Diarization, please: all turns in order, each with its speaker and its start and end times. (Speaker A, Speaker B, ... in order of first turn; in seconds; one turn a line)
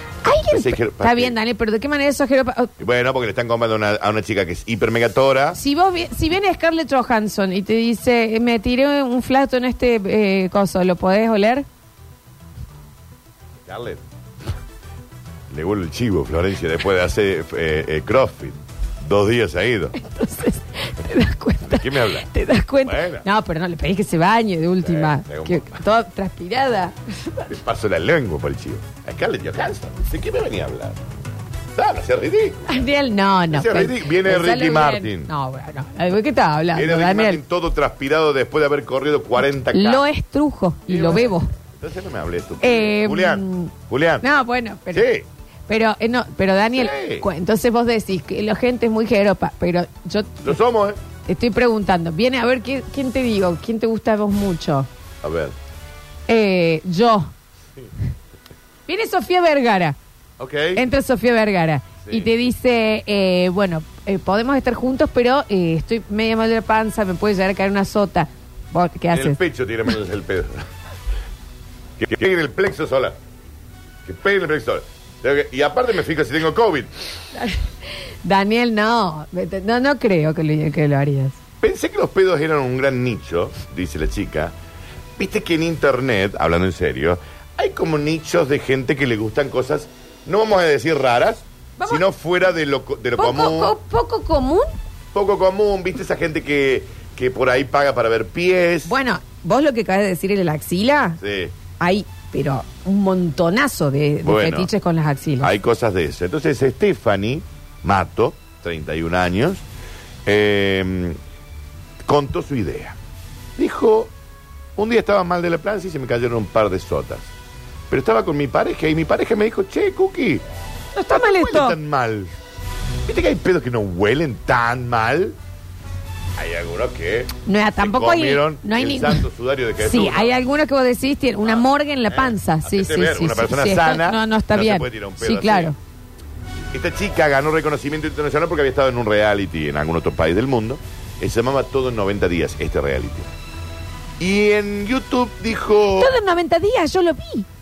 Speaker A: 0.2-2.7
Speaker B: 0.5-1.4
Speaker B: 2.8-5.6
Speaker A: 5.5-11.7
Speaker B: 13.7-14.0
Speaker B: 15.5-19.9
Speaker A: 20.0-27.5
Speaker B: 21.6-22.3
Speaker B: 22.9-23.2
Speaker B: 24.8-25.8
Speaker B: 27.5-31.0
Speaker B: 31.7-32.9
Speaker A: 32.7-37.4
Speaker B: 33.5-35.3
Speaker B: 36.7-40.0
Speaker A: 39.7-41.5
Speaker B: 40.9-44.3
Speaker A: 42.6-45.1
Speaker B: 44.9-45.3
Speaker A: 45.7-50.5
Speaker B: 46.7-47.3
Speaker B: 50.4-51.0
Speaker A: 51.3-54.9
Speaker B: 55.2-55.6
Speaker A: 56.3-57.3
Speaker A: 58.9-60.0
Speaker B: 60.4-60.8
Speaker A: 60.8-69.4
Speaker B: 62.0-62.3
Speaker B: 69.1-70.7
Speaker B: 72.0-73.2
Speaker B: 74.0-76.9
Speaker A: 77.3-81.4
Speaker B: 81.6-84.5
Speaker B: 85.2-93.8
Speaker A: 91.8-92.0
Speaker A: 93.2-94.8
Speaker B: 95.1-99.0
Speaker A: 98.9-101.2
Speaker B: 101.2-101.5
Speaker A: 101.8-105.5
Speaker B: 104.2-104.7
Speaker B: 105.4-109.6
Speaker B: 110.3-111.2
Speaker B: 112.0-113.0
Speaker B: 113.6-114.1
Speaker B: 114.8-117.3
Speaker B: 117.9-120.4
Speaker A: 121.0-121.8
Speaker B: 121.1-122.3
Speaker B: 123.1-125.4
Speaker B: 126.4-130.4
Speaker A: 127.5-129.3
Speaker A: 129.8-135.8
Speaker B: 131.4-135.7
Speaker B: 136.7-143.3
Speaker B: 144.2-146.2
Speaker A: 146.0-147.5